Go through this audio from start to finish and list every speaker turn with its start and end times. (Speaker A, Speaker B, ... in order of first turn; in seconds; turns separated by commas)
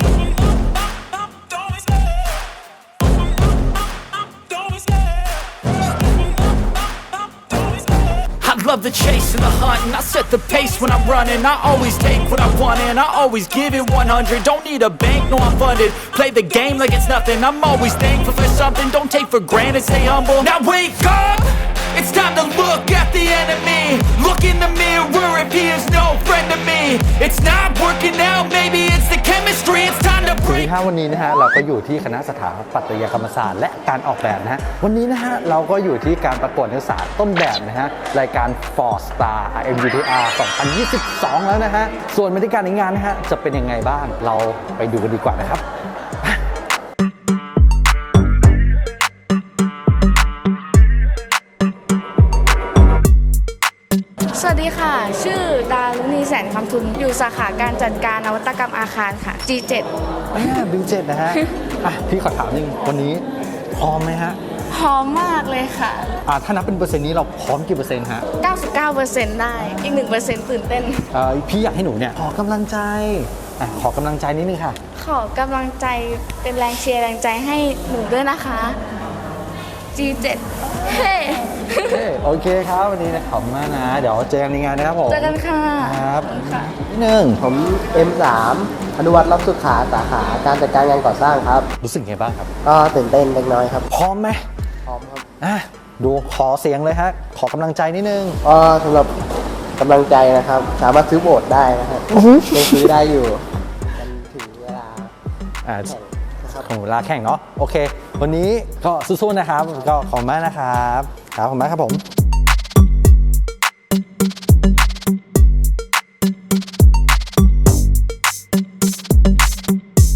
Speaker A: 4.5-4.9, Speaker A: 8.4-30.7, Speaker B: 30.4-45.6, Speaker C: 54.4-59.9, Speaker B: 60.3-64.4, Speaker C: 64.7-66.1, Speaker B: 66.3-68.2, Speaker C: 68.4-71.0, Speaker B: 71.1-74.8, Speaker C: 75.0-78.8, Speaker C: 80.0-81.8, Speaker B: 81.9-87.4, Speaker C: 85.1-86.7, Speaker D: 87.4-91.7, Speaker B: 91.8-92.5, Speaker D: 92.6-93.9, Speaker B: 93.9-94.4, Speaker D: 94.9-95.3, Speaker B: 95.4-98.4, Speaker D: 98.5-99.2, Speaker D: 99.8-103.4, Speaker D: 104.0-105.1, Speaker B: 105.7-106.0, Speaker D: 105.9-106.7, Speaker B: 106.5-112.0